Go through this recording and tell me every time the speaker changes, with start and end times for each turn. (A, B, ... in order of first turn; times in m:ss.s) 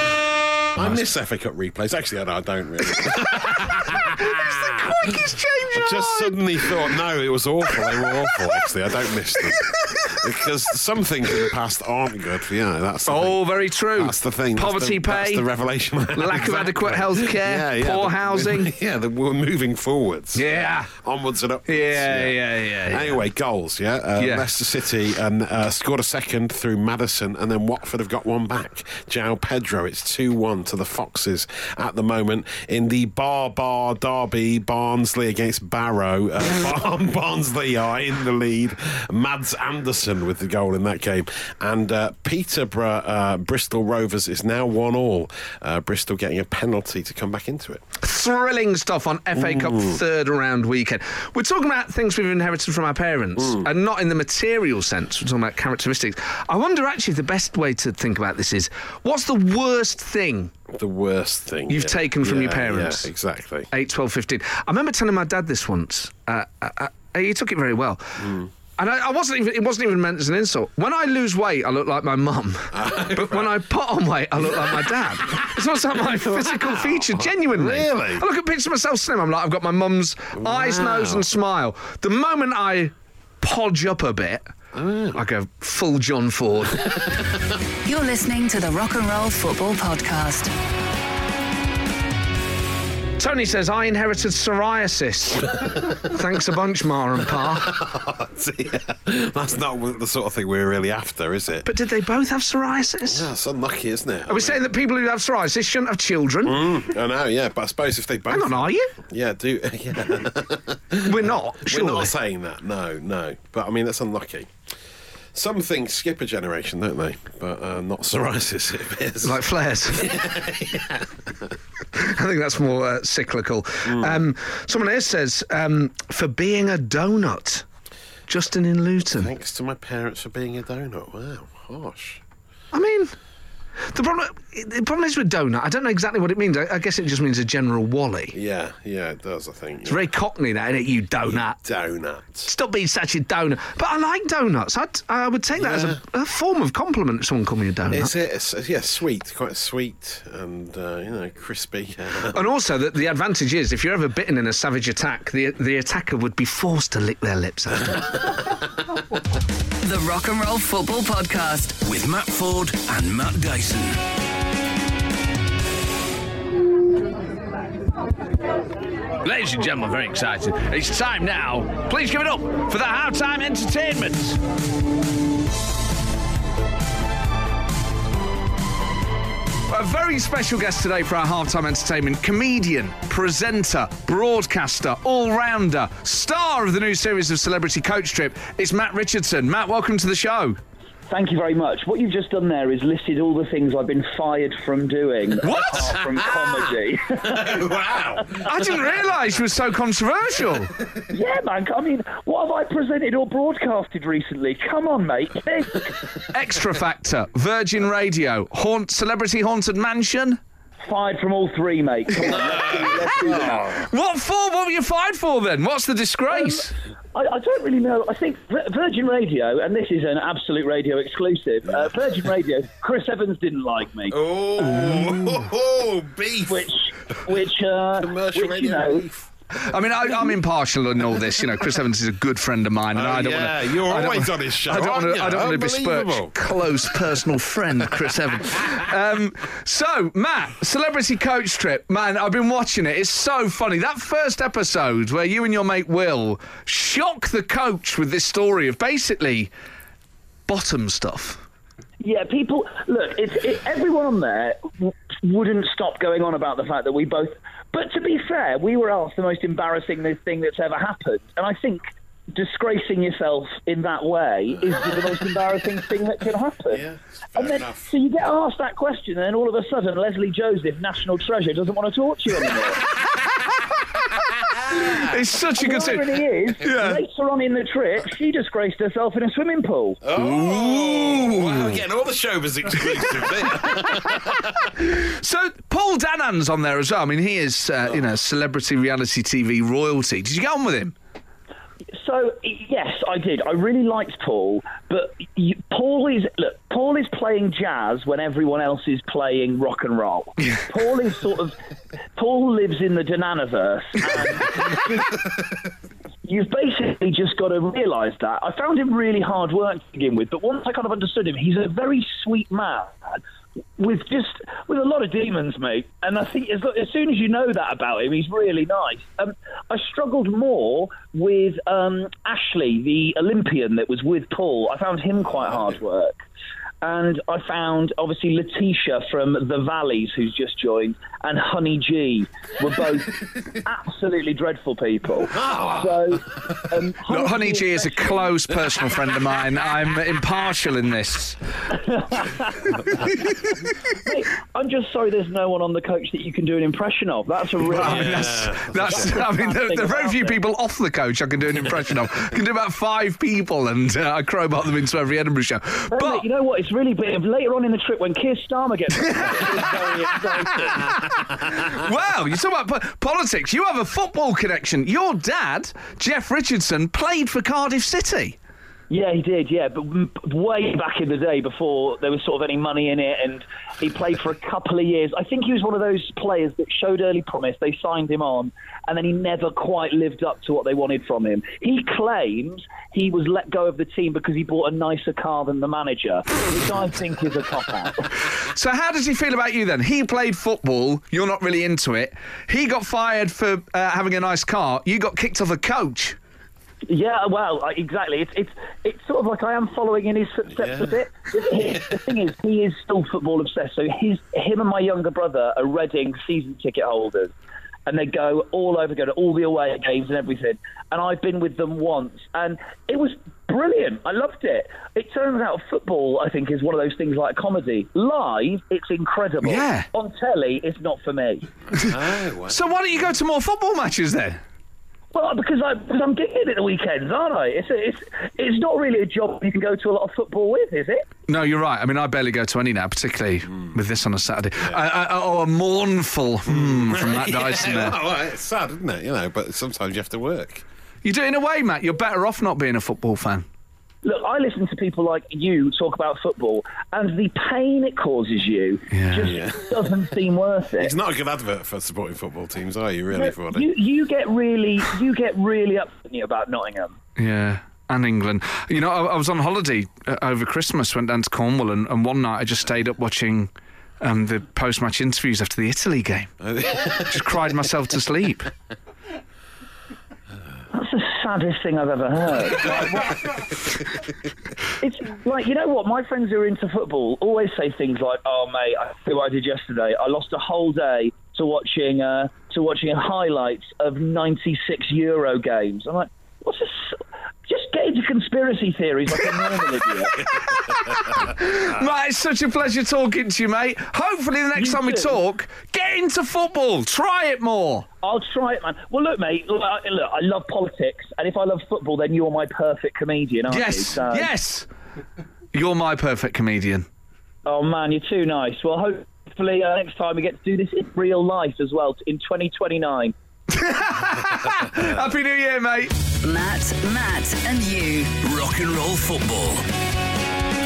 0:00.8-0:05.1 A
0:02.9-0:06.8 B
0:05.7-0:47.8 A
0:07.7-0:08.7 B
0:09.4-0:10.2 B
0:13.1-0:15.5 B
0:16.1-0:18.7 B
0:20.3-0:20.9 B
0:21.7-0:23.2 B
0:24.2-0:24.5 B
0:48.0-1:00.5 B
0:49.4-0:50.0 A
0:53.4-0:53.7 A
1:00.7-1:03.7 A
1:01.7-1:03.1 B
1:03.7-1:24.5 B
1:08.2-1:08.5 A
1:12.7-1:13.7 A
1:14.4-1:18.2 A
1:20.4-1:21.3 A
1:24.7-1:25.2 A
1:25.1-1:26.9 B
1:26.8-1:27.4 A
1:27.8-1:30.5 C
1:33.2-1:37.8 B
1:37.3-1:41.7 A
1:41.6-1:43.3 B
1:43.1-1:44.7 A
1:44.3-1:46.7 B
1:46.4-1:54.5 A
1:48.3-1:48.9 B
1:51.0-1:52.1 B
1:55.3-2:01.5 A
1:59.2-2:00.1 B
2:02.0-2:07.7 B
2:03.8-2:04.2 A
2:08.3-2:09.3 B
2:09.2-2:12.2 A
2:12.7-2:13.1 B
2:13.9-2:18.4 B
2:18.3-2:20.1 A
2:19.9-2:21.6 B
2:21.2-2:22.5 A
2:22.4-2:28.1 B
2:25.6-2:26.0 A
2:27.9-2:32.5 A
2:32.3-2:38.1 B
2:39.8-2:41.8 C
2:41.8-2:44.0 D
2:49.2-2:54.4 B
2:59.7-3:10.6 B
3:11.1-3:17.8 E
3:15.4-3:16.0 B
3:17.2-3:19.0 A
3:18.4-3:20.8 B
3:21.1-3:26.0 E
3:26.3-3:30.4 B
3:30.8-3:33.8 E
3:32.3-3:36.7 B
3:32.4-3:33.8 A
3:36.3-3:44.2 E
3:44.1-3:46.7 A
3:46.5-3:49.1 E
3:48.0-3:49.3 A
3:49.5-4:09.5 B
3:52.9-3:56.4 A
3:58.0-3:58.6 A
4:10.5-4:11.4 B
4:12.0-4:26.8 E
4:26.7-4:27.9 A
4:27.4-4:32.8 E
4:34.4-4:35.2 A
4:34.8-4:37.0 B
4:35.6-4:40.0 E
4:40.0-4:44.7 A
4:40.2-4:41.8 B
4:43.2-4:51.0 B
4:51.9-5:01.6 E
5:02.2-5:05.3 E
5:06.2-5:13.2 E
5:13.8-5:26.2 E
5:26.8-5:38.4 E
5:35.3-5:36.1 A
5:37.1-5:41.4 B
5:41.7-5:43.1 E
5:42.9-5:43.5 B
5:43.9-5:50.4 E
5:47.7-5:56.2 B
5:47.7-5:49.2 A
5:55.9-6:01.1 E
5:58.9-6:08.4 B
6:08.9-6:28.1 E
6:28.4-6:36.2 B
6:36.9-6:47.3 E
6:40.6-6:40.9 A
6:47.9-7:01.5 E
6:59.4-6:59.9 B
7:01.7-7:04.4 B
7:01.8-7:02.7 A
7:05.1-7:11.1 E
7:11.3-7:18.0 B
7:16.5-7:20.6 A
7:21.0-7:23.4 B
7:24.0-7:30.9 E
7:28.9-7:29.3 B
7:29.2-7:30.0 A
7:30.8-7:33.7 A
7:33.1-7:37.0 E
7:37.2-7:46.3 B
7:46.4-7:47.4 A
7:46.9-7:48.5 B
7:50.7-7:53.1 E
7:54.8-8:10.3 E
8:10.1-8:17.9 B
8:14.6-8:15.2 E
8:18.0-8:24.3 E
8:23.5-8:24.7 B
8:25.5-8:26.9 B
8:27.5-8:33.1 E
8:33.5-8:35.9 B
8:36.2-8:38.2 C
8:38.2-8:39.7 D